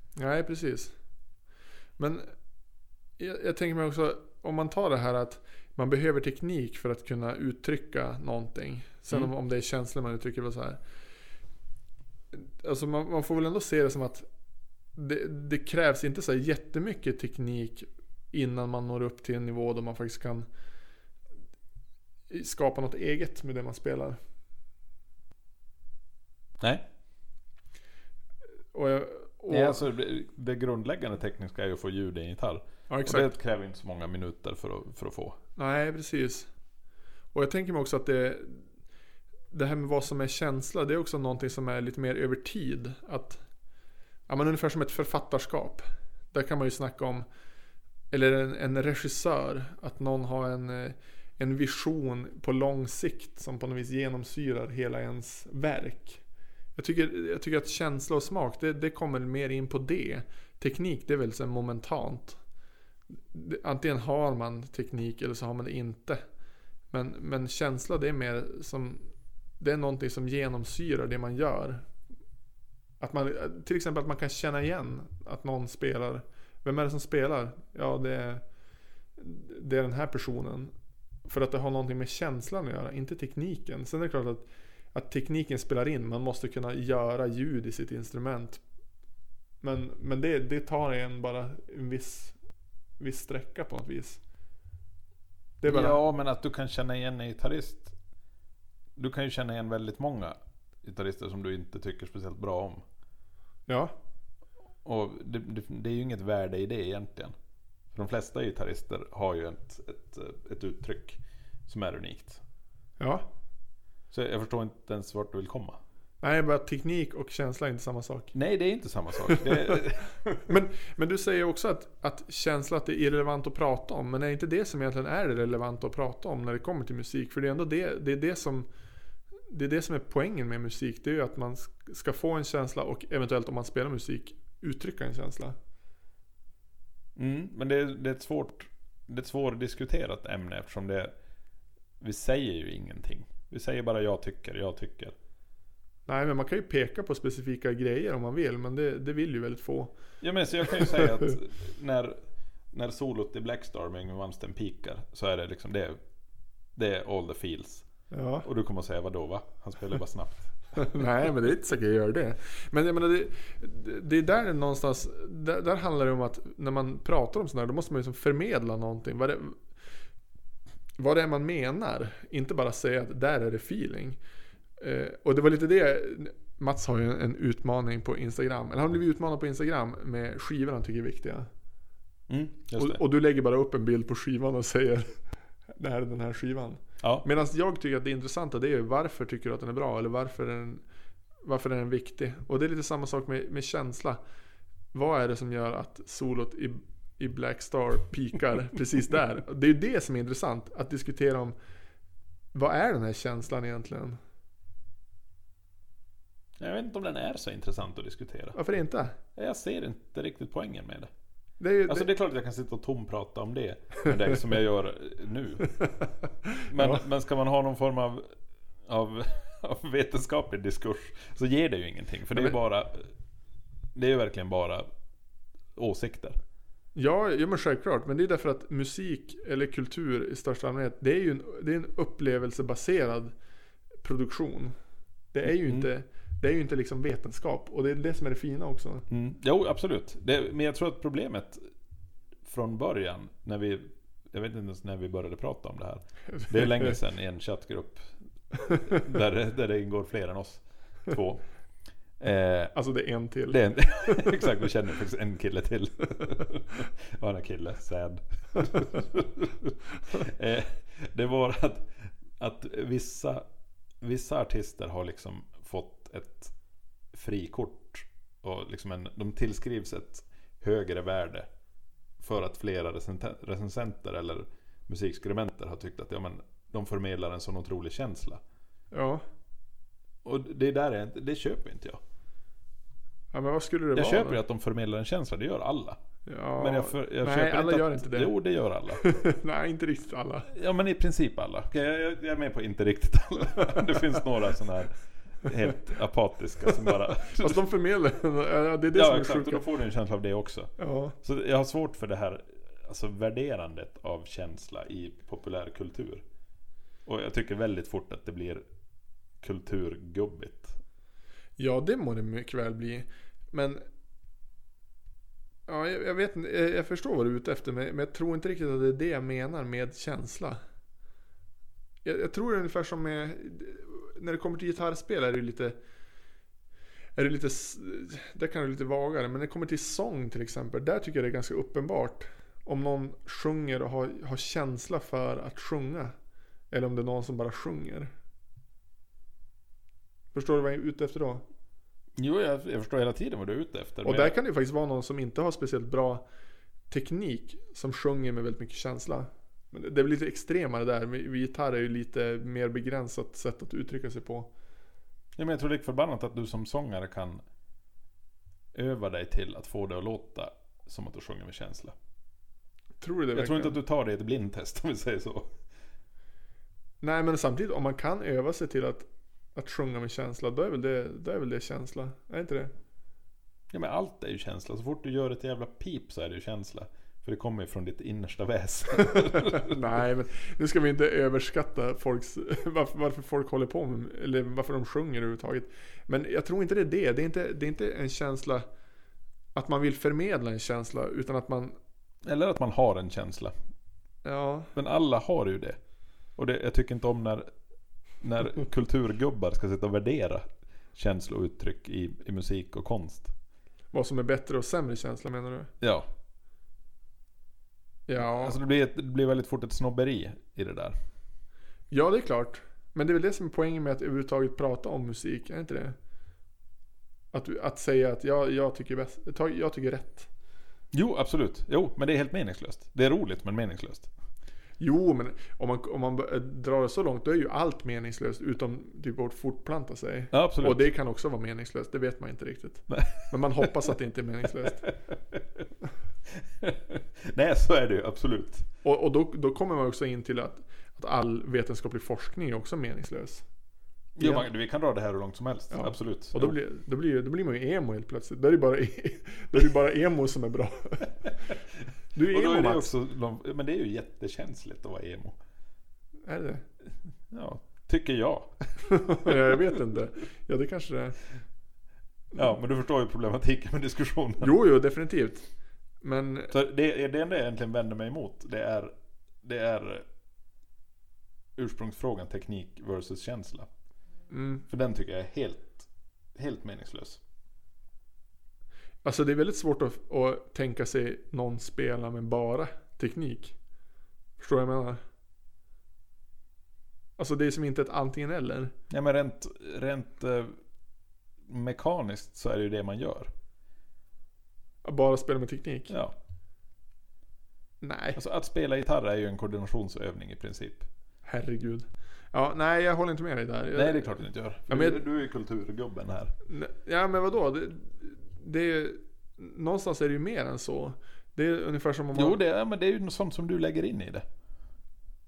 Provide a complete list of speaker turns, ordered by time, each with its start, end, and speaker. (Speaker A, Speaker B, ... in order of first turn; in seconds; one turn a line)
Speaker A: 0.1-0.9
Speaker A: 2.0-2.3
Speaker A: 3.2-10.8
Speaker A: 12.3-14.2
Speaker A: 14.9-20.5
Speaker A: 22.3-24.2
Speaker B: 26.6-26.9
Speaker A: 28.7-29.8
Speaker B: 29.5-35.4
Speaker A: 32.9-33.3
Speaker A: 35.6-36.5
Speaker A: 37.3-38.6
Speaker A: 39.5-43.4
Speaker A: 44.3-47.2
Speaker A: 48.1-56.2
Speaker A: 56.8-62.4
Speaker A: 63.3-66.2
Speaker A: 66.9-69.0
Speaker A: 69.6-71.9
Speaker A: 73.0-78.4
Speaker A: 79.2-80.7
Speaker A: 81.2-88.6
Speaker A: 89.6-92.3
Speaker A: 93.0-94.2
Speaker A: 95.6-96.0
Speaker B: 95.6-98.0
Speaker B: 99.0-102.8
Speaker A: 103.7-103.9
Speaker B: 104.8-107.3
Speaker B: 107.9-112.4
Speaker A: 113.0-113.3
Speaker B: 114.1-115.8
Speaker A: 116.2-118.3
Speaker B: 118.3-120.4
Speaker A: 119.3-119.8
Speaker A: 120.5-128.7
Speaker A: 129.5-135.5
Speaker B: 137.2-141.1
Speaker B: 142.0-145.1
Speaker A: 146.1-149.9
Speaker B: 150.2-152.2
Speaker A: 150.7-151.1
Speaker B: 152.7-156.0
Speaker B: 156.8-157.9
Speaker A: 158.1-158.4
Speaker B: 158.4-161.0
Speaker A: 160.7-169.6
Speaker A: 171.0-174.2
Speaker A: 174.8-181.5
Speaker B: 182.3-183.0
Speaker A: 182.8-185.2
Speaker A: 185.7-190.8
Speaker A: 191.4-194.2
Speaker A: 194.9-201.5
Speaker A: 202.5-204.2
Speaker B: 206.6-208.6
Speaker A: 208.6-209.2
Speaker B: 209.3-211.1
Speaker A: 211.6-212.1
Speaker B: 211.9-215.8
Speaker A: 216.5-217.0
Speaker B: 216.7-218.3
Speaker B: 218.9-223.1
Speaker B: 223.9-224.8
Speaker B: 225.8-226.4
Speaker A: 226.9-233.3
Speaker A: 234.0-234.7
Speaker A: 235.3-239.0
Speaker B: 235.4-235.9
Speaker B: 239.1-241.6
Speaker B: 242.4-248.1
Speaker A: 246.3-246.9
Speaker B: 248.8-251.4
Speaker B: 252.2-252.7
Speaker A: 252.7-254.6
Speaker B: 253.5-263.4
Speaker B: 264.0-266.5
Speaker B: 267.1-271.5
Speaker B: 272.2-278.4
Speaker A: 278.9-279.2
Speaker B: 280.2-282.0
Speaker A: 283.3-284.4
Speaker B: 283.9-286.0
Speaker A: 286.2-288.3
Speaker B: 286.6-289.1
Speaker A: 288.9-290.5
Speaker B: 290.5-297.6
Speaker A: 296.9-299.6
Speaker B: 298.9-300.7
Speaker A: 300.8-301.1
Speaker B: 301.2-306.2
Speaker B: 307.1-308.6
Speaker B: 309.4-310.8
Speaker A: 311.6-313.8
Speaker A: 315.7-320.6
Speaker A: 322.0-325.8
Speaker A: 327.2-336.1
Speaker A: 336.7-338.1
Speaker A: 340.3-341.4
Speaker B: 342.2-344.3
Speaker A: 344.0-346.2
Speaker A: 346.9-354.5
Speaker B: 355.4-357.4
Speaker B: 358.7-361.9
Speaker A: 363.0-363.8
Speaker B: 363.3-365.5
Speaker A: 367.0-372.7
Speaker B: 373.7-379.8
Speaker A: 379.0-388.6
Speaker A: 389.5-391.8
Speaker B: 392.2-393.5
Speaker A: 394.2-394.7
Speaker B: 394.7-395.8
Speaker B: 396.4-397.5
Speaker B: 398.2-400.4
Speaker B: 400.9-403.3
Speaker A: 403.9-405.7
Speaker B: 405.8-406.1
Speaker A: 408.1-408.6
Speaker B: 408.2-410.9
Speaker A: 411.9-415.9
Speaker A: 417.3-420.3
Speaker B: 420.9-424.1
Speaker A: 424.8-434.9
Speaker B: 430.3-430.8
Speaker B: 432.9-433.6
Speaker B: 434.6-435.6
Speaker B: 436.3-438.6
Speaker A: 438.8-443.4
Speaker B: 444.1-446.5
Speaker A: 444.2-444.5
Speaker A: 445.7-451.5
Speaker A: 452.1-452.9
Speaker B: 452.2-455.4
Speaker A: 456.2-456.6
Speaker B: 457.3-459.6
Speaker A: 458.9-461.2
Speaker B: 462.3-464.6
Speaker A: 464.4-465.5
Speaker A: 466.0-466.5
Speaker B: 466.5-468.9
Speaker B: 469.4-470.0
Speaker B: 471.6-473.7
Speaker A: 474.3-474.6
Speaker B: 474.7-477.2
Speaker A: 479.0-483.5
Speaker A: 484.4-485.0
Speaker A: 487.2-488.7
Speaker B: 488.9-490.5
Speaker B: 491.5-493.3
Speaker A: 494.8-495.9
Speaker B: 495.9-496.1
Speaker A: 497.8-498.2
Speaker B: 498.1-500.9
Speaker A: 501.2-505.0
Speaker B: 503.7-506.3
Speaker A: 506.5-512.4
Speaker B: 512.1-514.2